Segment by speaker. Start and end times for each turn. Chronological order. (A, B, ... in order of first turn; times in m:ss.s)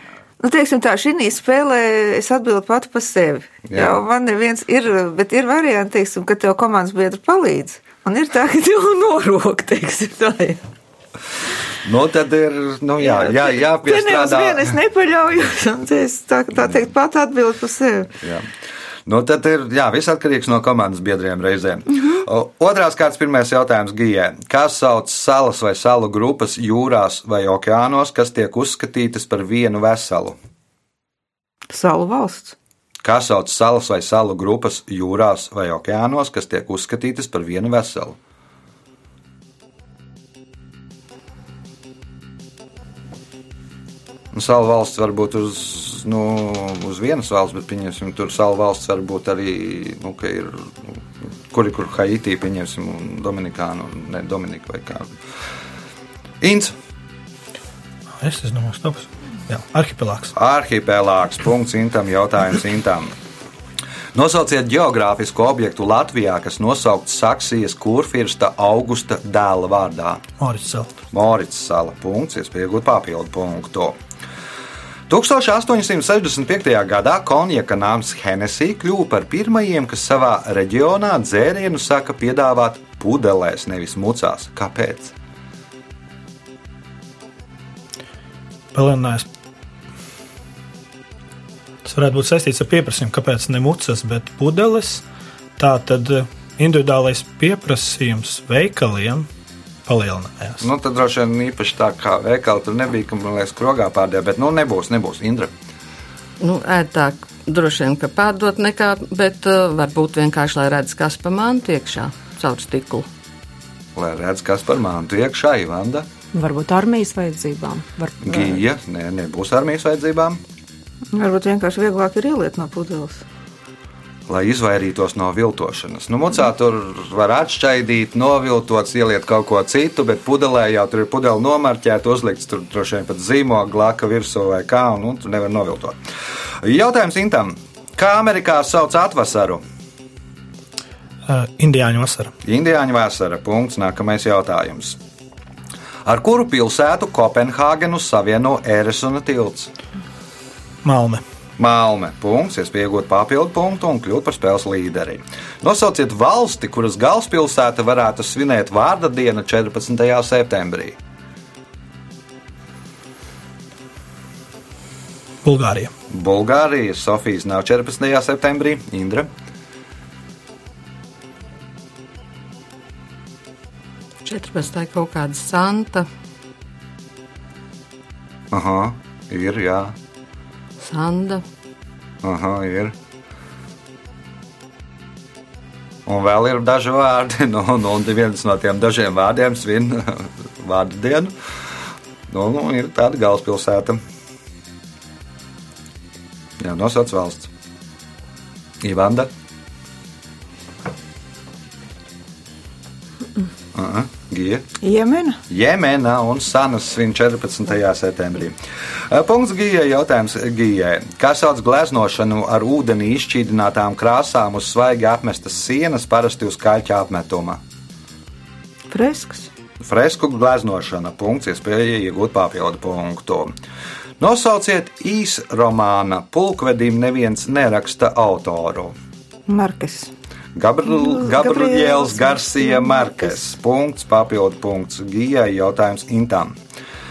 0:00.4-0:10.6 A
0:03.7-0:04.0 B
0:11.8-0:14.8 B
0:13.0-0:18.1 A
0:19.1-0:30.4 B
0:31.7-0:32.6 A
0:33.0-0:38.2 B
0:44.3-0:55.2 B
0:56.4-0:56.7 B
0:58.2-1:00.3 C
1:00.3-1:03.1 B
1:04.1-1:10.2 B
1:10.4-1:10.9 C
1:11.1-1:14.0 B
1:15.1-1:25.1 B
1:28.7-1:29.3 C
1:31.8-1:35.0 C
1:35.6-1:39.3 C
1:39.9-1:40.7 C
1:40.6-1:45.5 B
1:46.4-1:53.1 D
1:54.0-1:56.1 B
1:56.3-1:58.6 E
1:58.2-2:00.4 B
2:01.1-2:03.2 A
2:04.3-2:16.0 B
2:16.6-2:19.6 B
2:21.3-2:22.3 C
2:22.4-2:25.0 B
2:26.0-2:29.7 B
2:30.8-2:31.2 C
2:31.6-2:41.0 B
2:45.4-2:45.9 C
2:46.1-2:49.3 B
2:54.2-2:56.1 D
2:58.5-2:59.9 B
3:00.8-3:01.4 D
3:02.2-3:03.0 B
3:06.1-3:11.4 B
3:12.3-3:14.0 B
3:16.6-3:17.5 B
3:18.8-3:19.3 B
3:23.7-3:24.7 B
3:24.8-3:25.4 A
3:25.5-3:28.6 B
3:29.1-3:37.6 B
3:38.9-3:39.5 A
3:39.8-3:43.5 B
3:44.2-3:49.0 B
3:49.5-3:50.1 A
3:50.6-3:56.6 B
3:50.9-3:53.4 A